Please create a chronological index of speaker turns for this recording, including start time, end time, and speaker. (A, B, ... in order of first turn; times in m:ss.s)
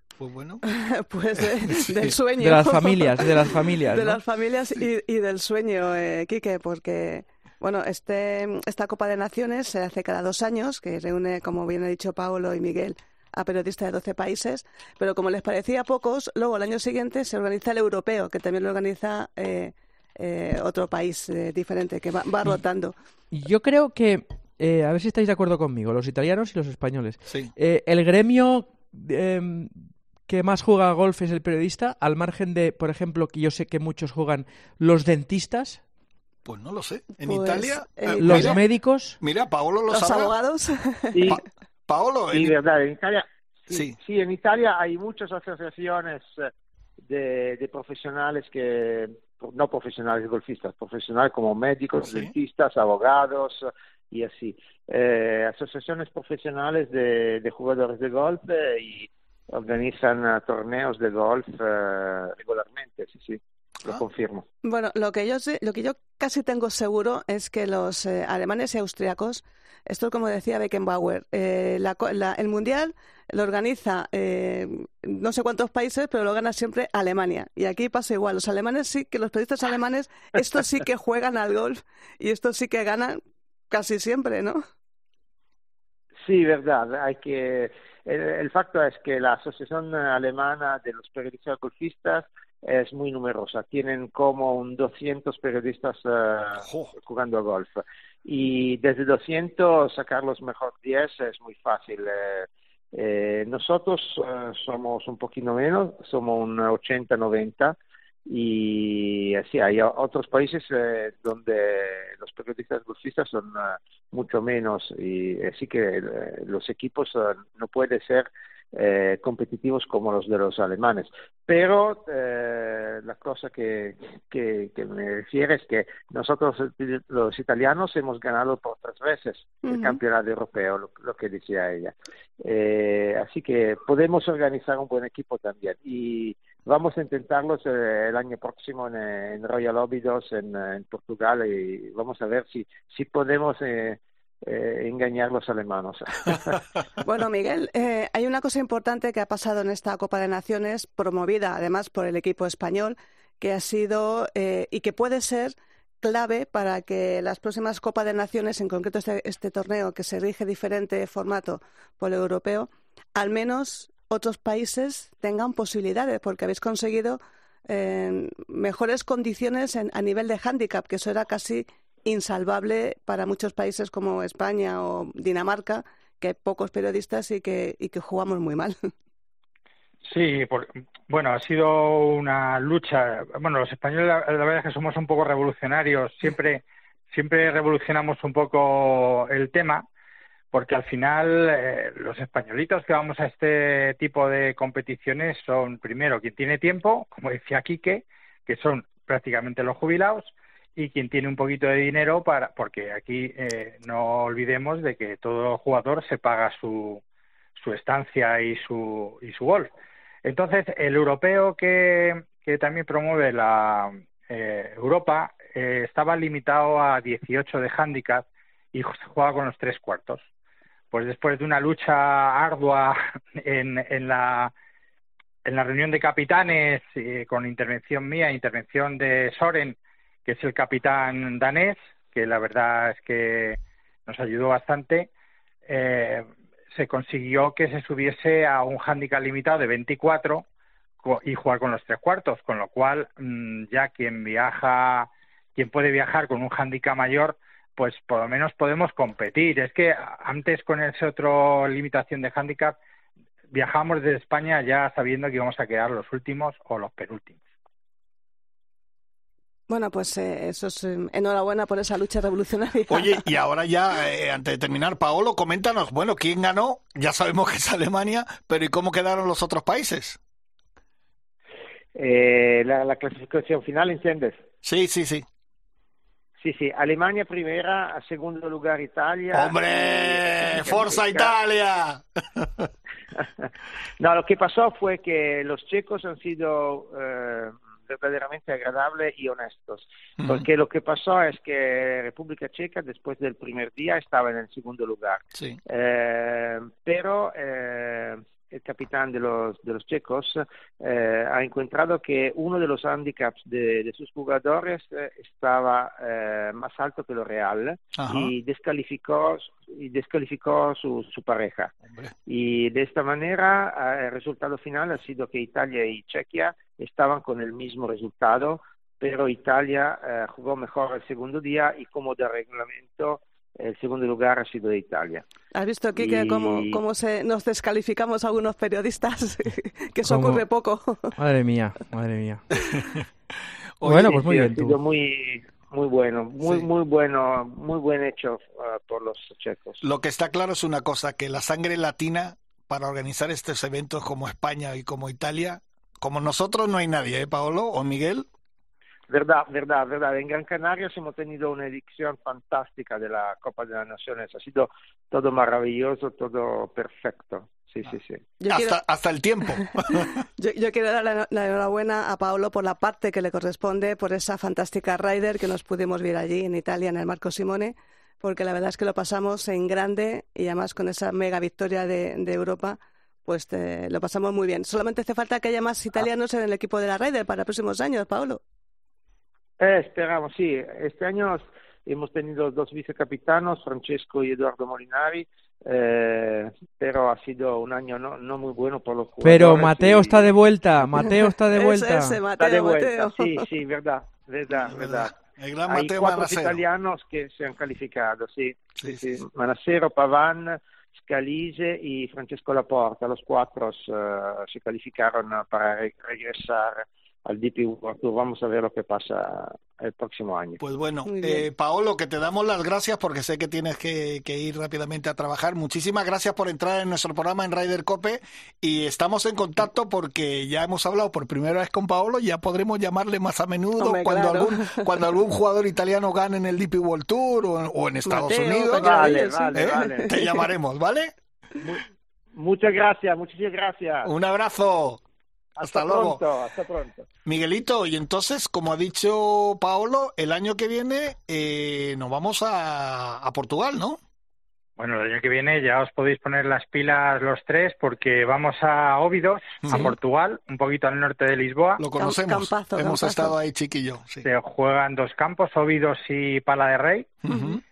0:00.2-0:00.6 A
0:00.9-0:03.3 B
0:01.4-0:02.1 A
0:02.4-0:04.2 C
0:03.9-0:22.9 B
0:23.3-0:35.8 C
0:27.3-0:27.5 A
0:36.4-0:40.3 A
0:37.2-0:38.6 B
0:38.2-0:39.2 C
0:39.9-0:41.4 B
0:41.1-0:41.4 D
0:41.3-0:42.6 A
0:42.3-0:46.5 D
0:43.7-0:44.0 A
0:47.1-1:04.4 D
0:52.0-0:52.3 A
1:04.6-1:23.2 B
1:23.7-1:24.6 B
1:26.2-2:26.6 D
1:36.6-1:36.9 A
2:09.7-2:10.0 B
2:27.0-2:58.8 B
3:00.0-3:09.9 E
3:10.5-3:27.0 E
3:27.6-3:29.7 E
3:30.2-3:40.3 E
3:40.9-3:44.5 E
3:45.4-3:55.1 E
3:55.7-4:00.5 E
4:01.0-4:12.8 E
4:13.5-4:17.4 E
4:19.7-4:23.2 B
4:22.9-4:30.2 A
4:32.0-4:34.4 D
4:34.6-4:35.3 A
4:36.4-4:41.3 D
4:39.3-4:42.7 A
4:43.2-4:43.5 D
4:44.0-5:11.8 D
4:55.4-4:55.6 A
5:08.0-5:08.3 A
5:11.9-5:12.1 A
5:12.3-5:25.2 D
5:25.6-5:31.1 B
5:26.0-5:26.8 D
5:30.1-5:30.4 C
5:31.2-5:32.5 C
5:32.6-5:33.1 A
5:33.8-5:34.2 A
5:33.8-5:34.8 C
5:34.1-5:39.8 D
5:39.8-5:48.3 A
5:49.1-5:58.2 D
5:58.4-5:58.8 B
5:58.5-6:00.2 A
5:59.9-6:18.4 B
6:19.6-6:30.4 D
6:29.2-6:32.2 C
6:31.0-6:33.4 B
6:32.4-6:50.6 D
6:34.5-6:36.6 A
6:38.8-6:39.2 A
6:50.6-7:11.1 A
6:51.1-6:51.4 B
7:03.8-7:04.9 B
7:08.1-7:10.4 B
7:08.7-7:10.1 D
7:12.4-7:14.1 D
7:14.0-7:15.0 A
7:15.6-7:17.1 D
7:15.6-7:16.2 A
7:17.3-7:24.0 A
7:24.8-7:31.8 E
7:29.6-7:29.9 A
7:31.8-7:34.3 A
7:32.0-7:33.4 B
7:34.2-7:37.2 E
7:37.3-7:37.6 A
7:37.3-7:37.6 B